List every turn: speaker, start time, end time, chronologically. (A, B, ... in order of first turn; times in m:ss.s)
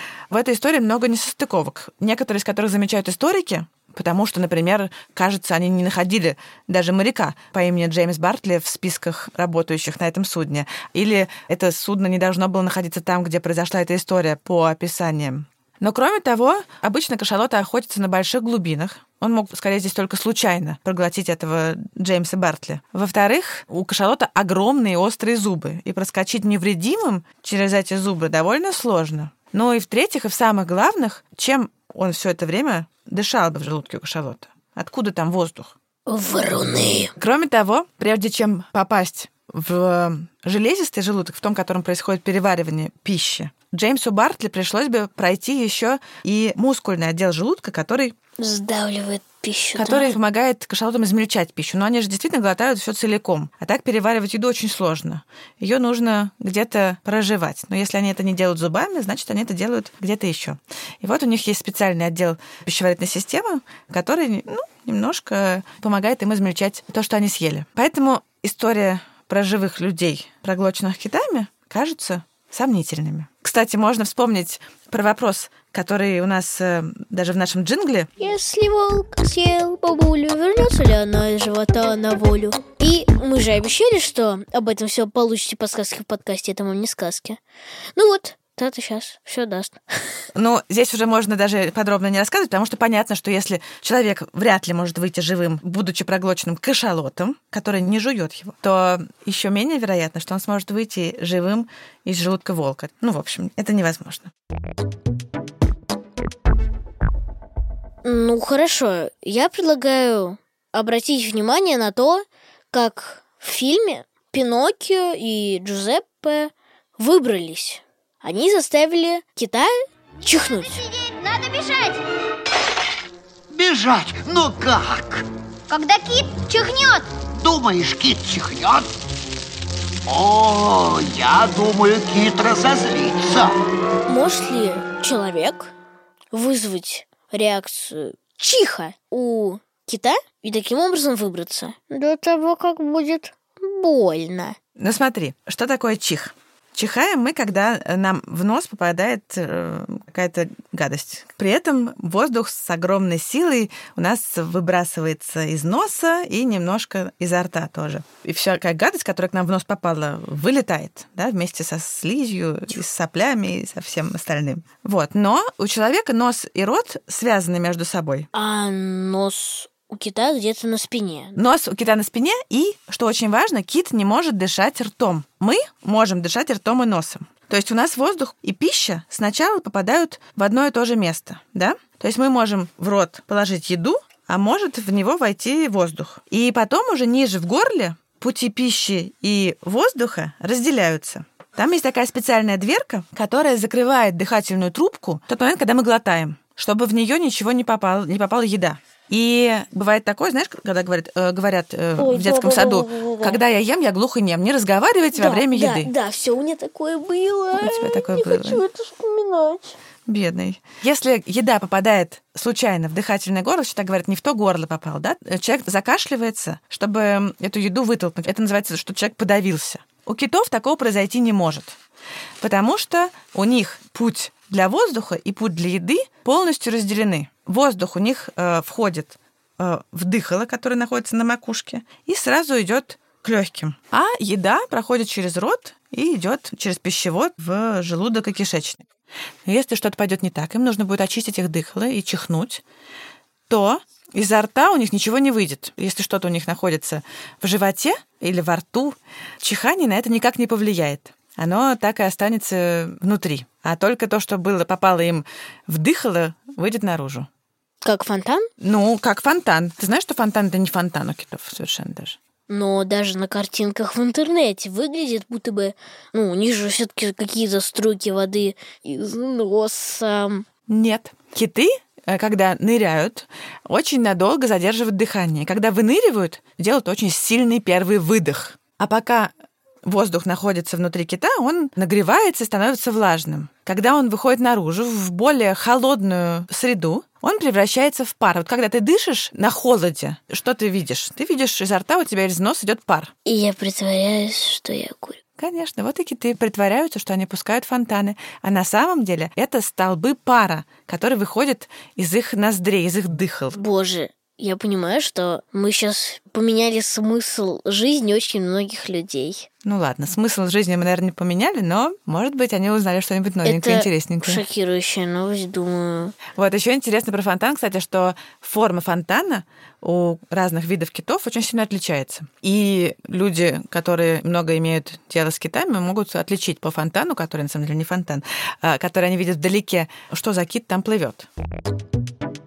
0:00.3-0:35.7 A
0:36.1-0:37.1 B
0:37.2-0:48.2 A
0:48.4-0:50.2 B
0:49.8-1:18.1 A
1:18.2-1:27.4 B
1:28.0-1:30.2 B
1:30.3-1:44.3 A
1:48.0-2:00.9 B
2:00.9-2:02.0 C
2:03.5-2:05.3 D
2:05.7-2:07.1 C
2:07.3-2:08.9 D
2:10.1-2:13.6 D
2:14.1-2:15.7 B
2:16.3-2:24.6 B
2:24.8-2:48.3 A
2:48.3-2:51.4 B
2:51.4-3:25.9 A
3:22.0-3:23.4 B
3:25.1-3:29.7 B
3:27.6-3:28.6 A
3:30.1-3:41.8 A
3:42.4-3:58.9 A
3:59.4-4:02.6 A
4:03.5-4:17.3 A
4:17.8-4:18.5 B
4:18.6-4:22.2 A
4:22.5-4:30.5 B
4:30.7-4:39.3 A
4:39.8-4:53.1 A
4:53.2-4:55.2 B
4:55.4-5:03.6 A
5:03.6-5:09.5 B
5:09.6-5:14.4 A
5:13.4-5:16.2 B
5:16.4-5:31.3 A